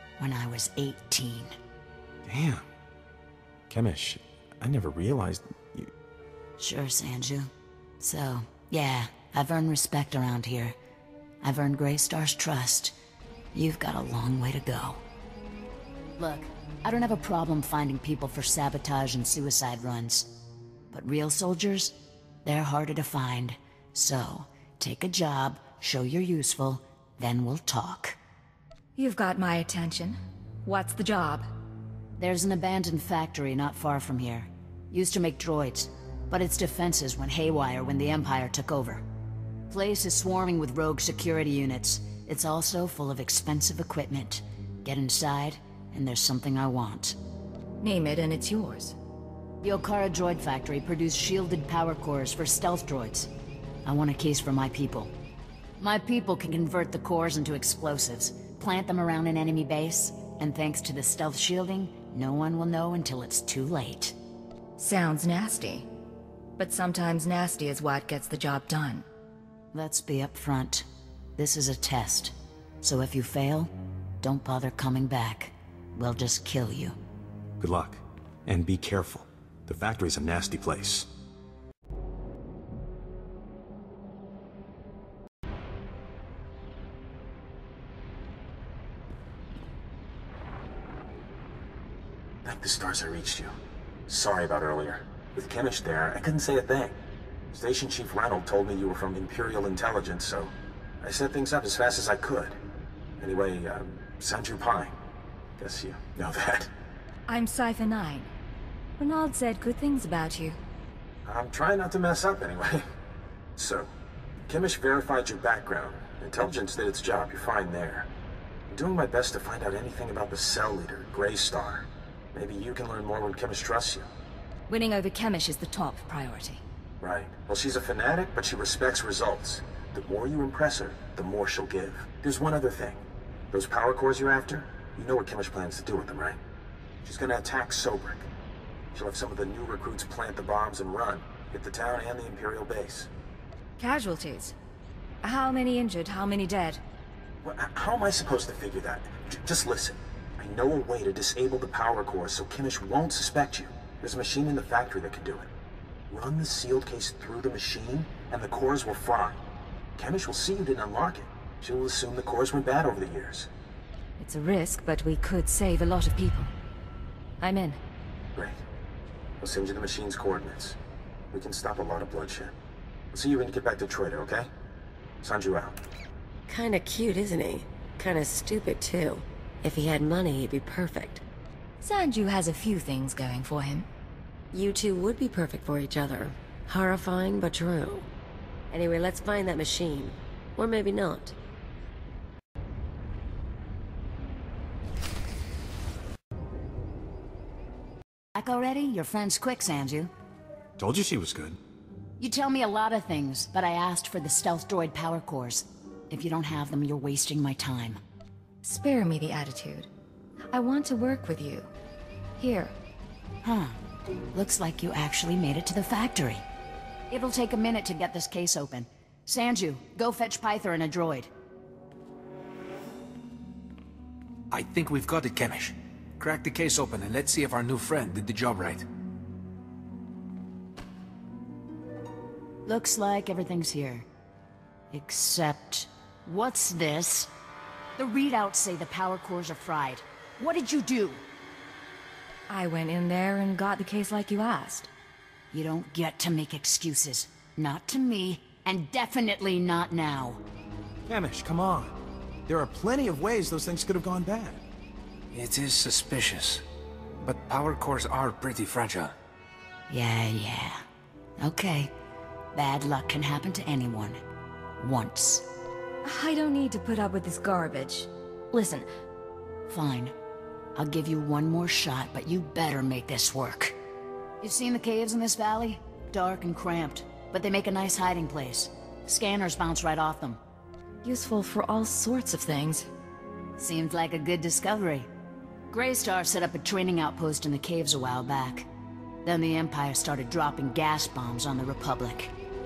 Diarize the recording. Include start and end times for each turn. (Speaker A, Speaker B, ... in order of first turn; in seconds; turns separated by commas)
Speaker A: 0.2-1.6, Speaker B: 2.2-2.6, Speaker B: 3.7-5.9, Speaker A: 6.6-10.8, Speaker A: 11.4-13.0, Speaker A: 13.5-15.0, Speaker A: 16.2-20.4, Speaker A: 20.9-28.2, Speaker C: 29.0-31.5, Speaker A: 32.2-39.0, Speaker A: 39.7-47.2, Speaker C: 47.8-49.0, Speaker A: 49.6-53.3, Speaker A: 53.8-55.1, Speaker A: 55.8-64.2, Speaker C: 64.8-65.9, Speaker C: 66.6-69.1, Speaker A: 69.7-70.9, Speaker A: 71.4-73.7, Speaker A: 74.2-77.0, Speaker B: 77.6-81.1, Speaker D: 92.4-93.5, Speaker D: 94.1-97.0, Speaker D: 97.5-102.6, Speaker D: 103.2-105.0, Speaker D: 105.6-106.7, Speaker C: 107.3-108.3, Speaker C: 109.0-110.6, Speaker D: 111.2-112.9, Speaker D: 113.6-113.9, Speaker D: 114.5-118.1, Speaker D: 118.7-124.1, Speaker C: 124.7-126.6, Speaker D: 127.0-136.4, Speaker D: 137.0-138.3, Speaker D: 138.9-143.1, Speaker C: 143.8-144.6, Speaker C: 145.2-146.8, Speaker D: 147.4-155.5, Speaker D: 156.1-159.4, Speaker D: 160.0-163.5, Speaker C: 164.2-166.5, Speaker C: 167.4-167.8, Speaker D: 168.3-168.6, Speaker D: 169.4-170.8, Speaker D: 171.3-172.5, Speaker D: 173.1-174.5, Speaker D: 175.2-175.8, Speaker E: 176.5-181.2, Speaker C: 181.8-183.9, Speaker E: 184.5-188.1, Speaker E: 188.7-191.4, Speaker A: 198.3-200.1, Speaker B: 200.8-201.6, Speaker A: 202.2-208.0, Speaker C: 208.6-209.9, Speaker C: 210.5-211.7, Speaker C: 212.4-212.7, Speaker A: 213.4-213.8, Speaker A: 214.3-216.4, Speaker A: 217.1-221.3, Speaker F: 224.5-228.8, Speaker A: 232.7-234.1, Speaker A: 234.9-237.3, Speaker A: 238.0-241.2, Speaker C: 242.5-244.9, Speaker A: 245.5-250.4, Speaker B: 251.1-252.0, Speaker B: 252.5-254.6, Speaker F: 255.3-256.6, Speaker F: 257.2-259.1, Speaker A: 259.9-260.8, Speaker A: 261.4-261.9, Speaker A: 262.5-264.2, Speaker A: 264.8-265.5, Speaker C: 266.0-268.9, Speaker A: 269.7-270.1, Speaker A: 270.8-273.8, Speaker A: 274.4-280.4, Speaker C: 281.0-282.9, Speaker A: 283.6-285.1, Speaker A: 285.7-288.7, Speaker A: 289.2-292.3